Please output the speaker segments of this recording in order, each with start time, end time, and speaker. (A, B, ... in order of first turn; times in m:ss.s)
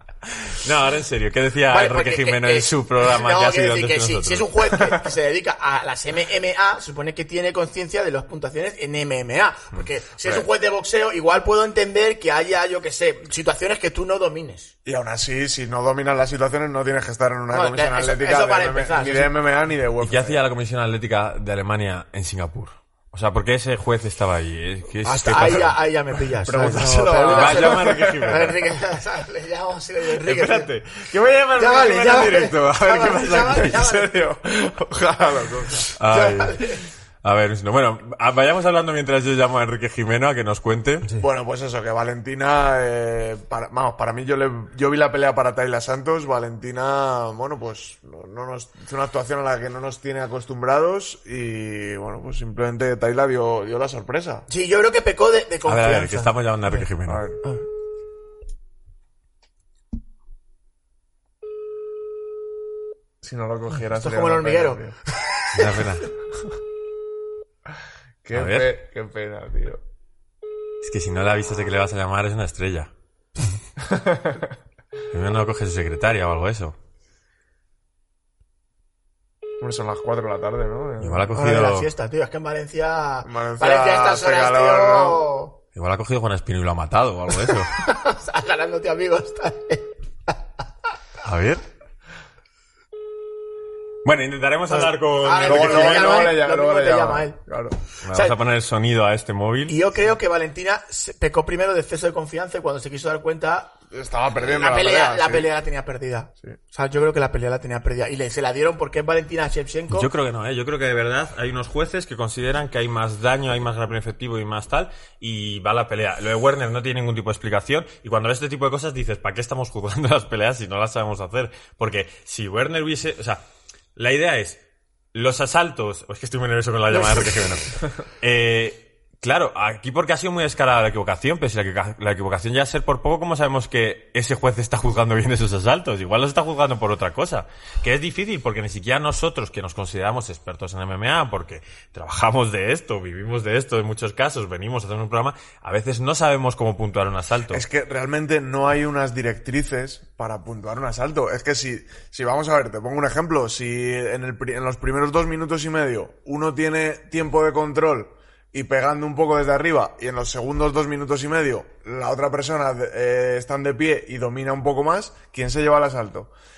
0:00.2-0:04.7 A
0:01.7-0:14.7 B
0:14.8-0:20.4 C
0:17.5-0:19.3 B
0:20.0-0:25.8 A
0:25.0-0:30.7 B
0:26.4-0:28.5 C
0:27.2-0:28.6 A
0:30.2-0:33.8 A
0:31.6-0:34.2 B
0:33.6-0:36.0 C
0:36.0-0:41.2 A
0:36.1-0:36.9 B
0:41.2-0:54.5 C
0:54.5-0:56.9 B
0:55.6-0:57.2 A
0:57.1-0:57.4 C
1:03.2-1:05.0 C
1:03.9-1:04.8 B
1:05.5-1:06.1 A
1:08.2-1:09.8 C
1:08.3-1:08.7 A
1:10.8-1:12.9 A
1:13.8-1:14.4 C
1:15.1-1:16.8 A
1:19.6-1:21.4 C
1:21.0-1:21.9 A
1:21.3-1:25.6 B
1:23.2-1:25.2 C
1:25.8-1:27.8 A
1:27.8-1:30.4 B
1:31.2-1:31.6 A
1:34.0-1:36.2 A
1:34.8-1:37.4 B
1:35.4-1:37.8 C
1:38.0-1:39.8 A
1:39.7-1:43.7 B
1:43.9-1:45.5 C
1:44.4-1:50.1 B
1:49.9-2:03.4 A
2:04.0-2:04.6 A
2:05.1-2:27.6 A
2:06.9-2:07.6 B
2:27.5-2:46.3 C